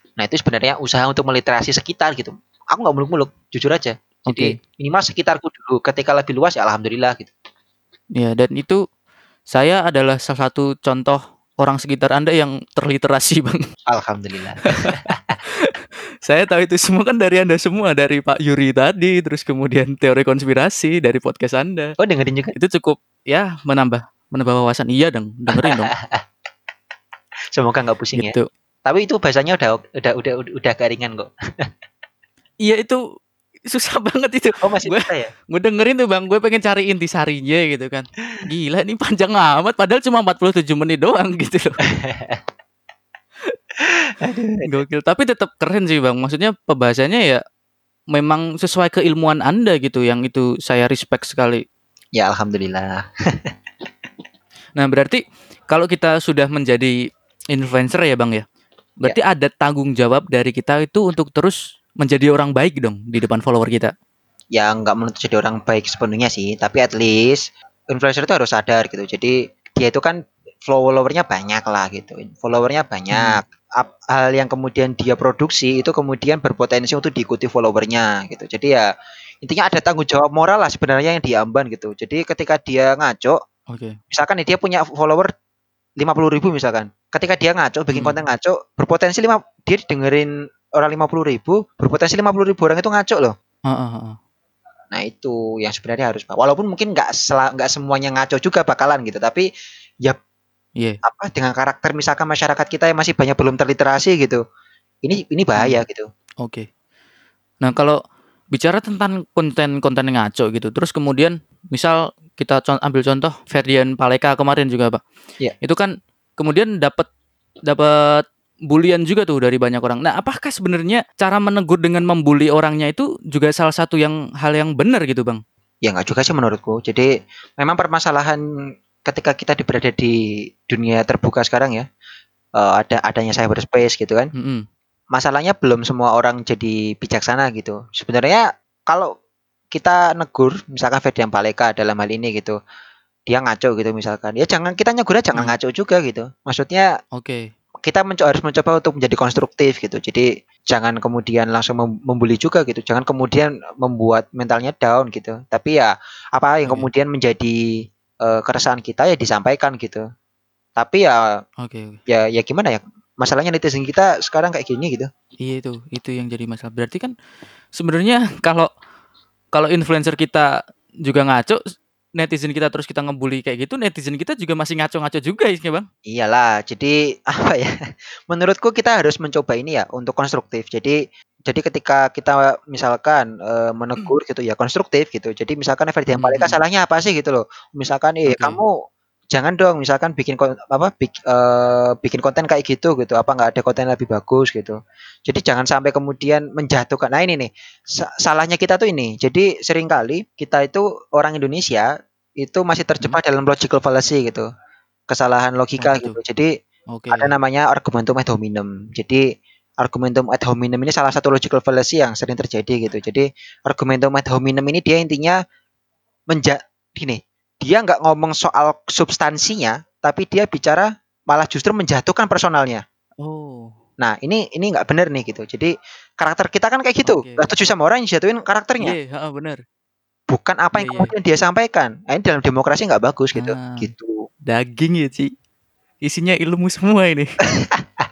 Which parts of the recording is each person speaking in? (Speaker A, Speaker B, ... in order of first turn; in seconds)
Speaker A: 0.2-7.3, 13.9-15.4, 22.0-22.5, 25.5-26.2, 27.5-28.3, 28.9-31.7, 34.6-35.3, 41.9-42.4, 43.9-44.6, 52.1-53.5, 64.5-78.9, 79.4-83.4, 84.1-85.3, 86.0-93.3, 94.9-99.5, 101.0-104.4, 105.0-106.1, 125.8-128.4, 129.1-130.2, 130.7-131.8, 132.6-134.3, 135.1-139.1, 139.7-142.6, 143.3-146.9, 147.8-157.6, 158.2-160.0, 160.8-161.2, 162.1-165.1, 176.1-177.7, 178.3-188.7, 189.3-194.8, 195.3-201.9, 202.4-204.5, 205.1-206.5, 207.1-209.2, 209.8-215.4, 216.3-222.8, 224.0-228.9, 230.3-234.2, 237.6-237.8
Speaker B: 4.3-4.5, 8.2-8.8, 9.5-13.6, 14.7-15.0, 15.5-21.9, 22.5-25.9, 28.1-28.5, 32.6-33.0, 33.7-41.8, 44.6-47.4, 48.1-51.6, 54.8-57.0, 57.5-58.4, 59.0-63.9, 73.1-73.4, 83.7-84.0, 93.7-94.2, 107.6-108.0, 108.5-115.0, 115.6-117.1, 117.7-125.4, 134.3-134.6, 147.2-147.4, 161.6-162.0, 165.4-167.1, 167.7-168.7, 169.5-170.5, 171.0-171.6, 172.2-175.9, 186.1-186.6, 188.2-188.6, 205.8-206.2, 206.9-207.3, 223.2-223.7, 227.0-227.4, 228.8-229.6, 230.8-231.1, 233.3-233.9, 234.5-235.3, 236.0-237.4